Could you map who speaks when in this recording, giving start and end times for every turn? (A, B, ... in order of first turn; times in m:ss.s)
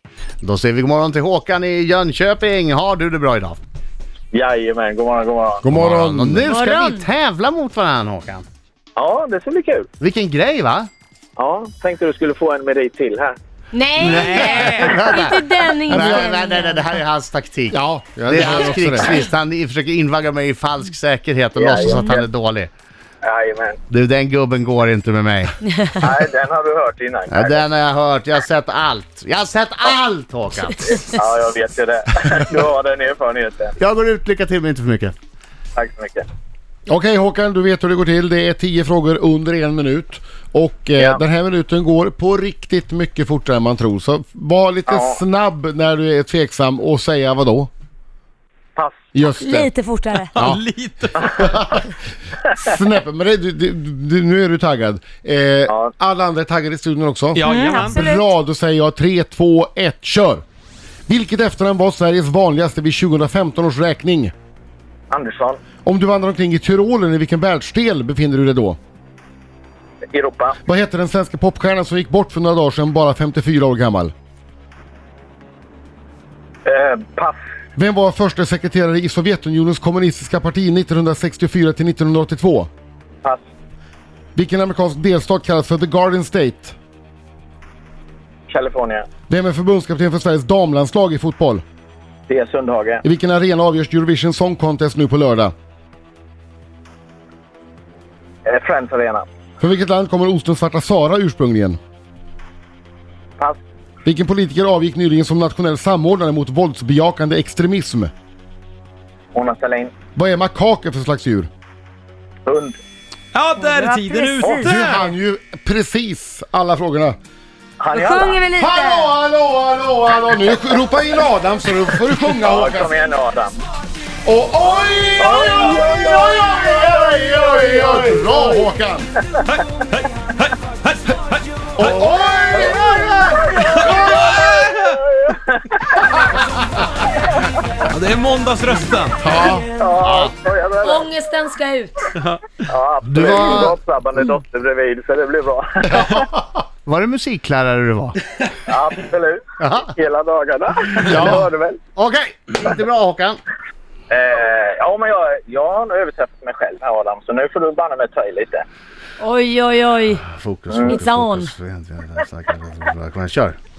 0:00.4-0:03.6 A
0:04.3-0:05.7 B
0:05.6-0:06.6 C
0:05.7-0:08.5 A
0:06.4-0:07.1 D
0:09.0-0:09.9 B
0:10.0-0:10.9 A
0:11.4-0:13.4 B
0:13.7-0:16.8 D
0:14.0-0:22.7 A
0:14.0-0:15.1 E
0:15.9-0:16.4 C
0:17.7-0:19.2 C
0:21.6-0:22.3 B
0:21.9-0:22.2 D
0:23.2-0:23.8 B
0:23.9-0:25.6 A
0:26.0-0:27.6 B
0:27.3-0:31.0 A
0:30.8-0:33.8 B
0:33.8-0:35.2 A
0:35.8-0:36.2 B
0:36.9-0:47.7 C
0:44.9-0:45.2 B
0:48.8-0:49.0 B
0:49.1-0:49.7 C
0:49.4-0:50.5 D
0:50.4-0:51.8 E
0:51.3-0:51.9 C
0:52.6-1:00.4 C
0:57.3-0:58.0 E
0:57.4-0:58.2 D
1:01.1-1:04.3 C
1:05.1-1:05.6 B
1:05.8-1:08.8 C
1:10.1-1:10.6 B
1:10.6-1:14.1 C
1:16.6-1:17.4 B
1:17.8-1:22.7 C
1:24.4-1:26.8 C
1:28.5-1:29.1 B
1:29.3-1:31.6 C
1:32.3-1:33.0 B
1:33.0-1:35.5 C
1:38.4-1:39.3 B
1:39.6-1:41.8 C
1:44.0-1:48.1 C
1:49.3-1:49.9 B
1:50.2-1:51.5 C
1:52.5-1:52.8 B
1:53.3-1:55.1 E
1:53.6-1:54.7 D
1:54.6-1:57.2 C
1:57.8-1:58.4 B
1:57.9-1:59.1 D
1:58.6-2:02.9 C
2:02.4-2:03.5 B
2:04.2-2:09.1 C
2:05.2-2:06.8 B
2:06.5-2:08.3 A
2:07.6-2:07.8 B
2:09.5-2:11.2 E
2:11.8-2:14.4 C
2:11.8-2:13.5 A
2:12.5-2:16.3 B
2:13.9-2:15.0 E
2:17.9-2:19.3 E
2:19.2-2:19.6 C
2:19.7-2:21.1 B
2:20.0-2:20.3 A
2:20.8-2:22.0 D
2:22.2-2:22.4 E
2:22.7-2:26.2 B
2:23.1-2:23.8 A
2:26.0-2:26.4 C
2:26.9-2:28.2 A
2:28.7-2:31.8 B
2:29.6-2:29.9 A
2:31.1-2:31.4 C
2:32.0-2:33.4 A
2:34.1-2:38.6 B
2:39.2-2:40.3 D
2:40.3-2:43.6 A
2:40.7-2:41.0 B
2:40.9-2:41.5 D